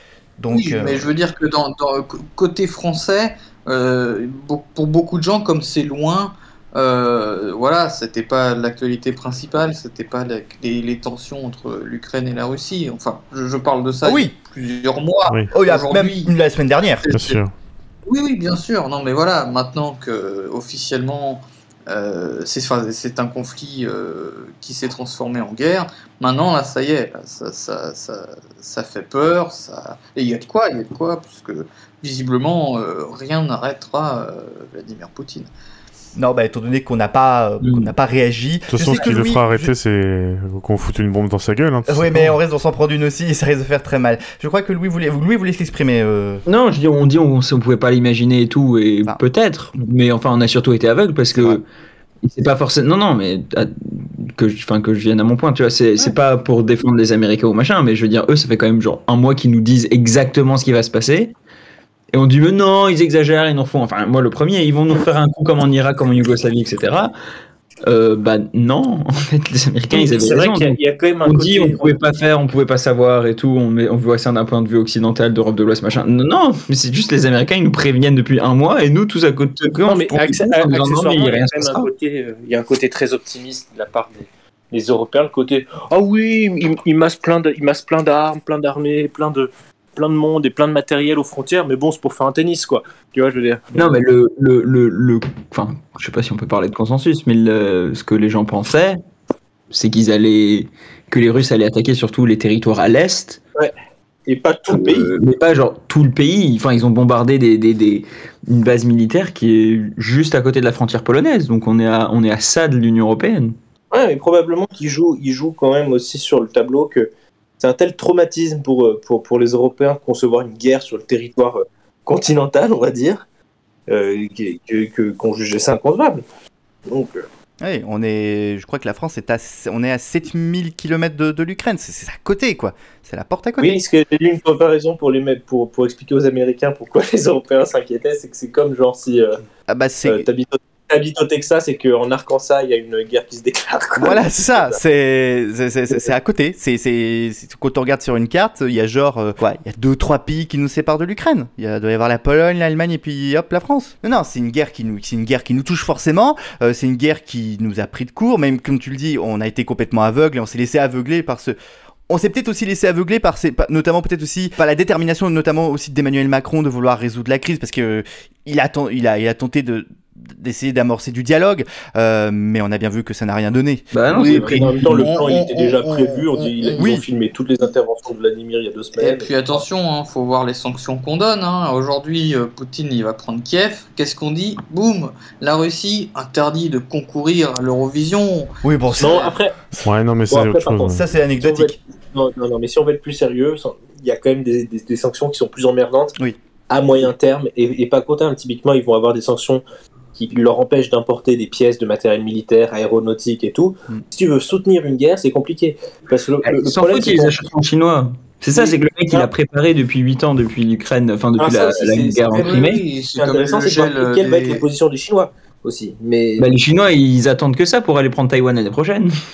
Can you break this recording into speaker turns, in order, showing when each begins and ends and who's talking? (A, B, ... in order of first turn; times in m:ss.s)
0:00.4-0:01.1 A
0:00.5-0:16.3 B
0:14.0-0:14.3 A
0:15.5-0:17.0 A
0:17.0-0:17.4 B
0:17.1-0:17.5 C
0:18.1-0:35.5 B
0:36.2-0:39.7 A
0:37.6-0:37.9 D
0:38.7-0:42.2 C
0:41.9-0:46.4 A
0:46.4-0:51.6 D
0:51.3-0:51.6 A
0:52.2-1:01.3 D
1:02.1-1:07.1 D
1:07.8-1:21.9 D
1:09.9-1:11.9 E
1:19.9-1:33.7 E
1:33.7-1:39.0 D
1:39.7-1:43.4 D
1:44.3-1:45.1 E
1:44.7-1:53.5 D
1:53.9-2:03.2 E
2:03.9-2:06.2 E
2:06.9-2:07.2 E
2:07.6-2:13.8 A
2:13.6-2:19.4 E
2:19.7-2:20.2 A
2:20.0-2:24.8 E
2:24.0-2:41.5 A
2:42.1-2:53.9 A
2:53.9-2:55.0 D
2:54.2-2:59.3 E
2:54.2-2:56.9 B
2:56.8-2:57.0 A
2:58.9-3:09.3 B
3:08.6-3:09.3 A
3:09.0-3:16.2 E
3:09.8-3:11.0 C
3:10.9-3:11.8 A
3:16.7-3:19.6 E
3:20.1-3:27.4 E
3:26.4-3:32.8 D
3:28.5-3:29.3 E
3:31.4-3:36.5 E
3:32.4-3:34.6 B
3:36.4-3:39.1 D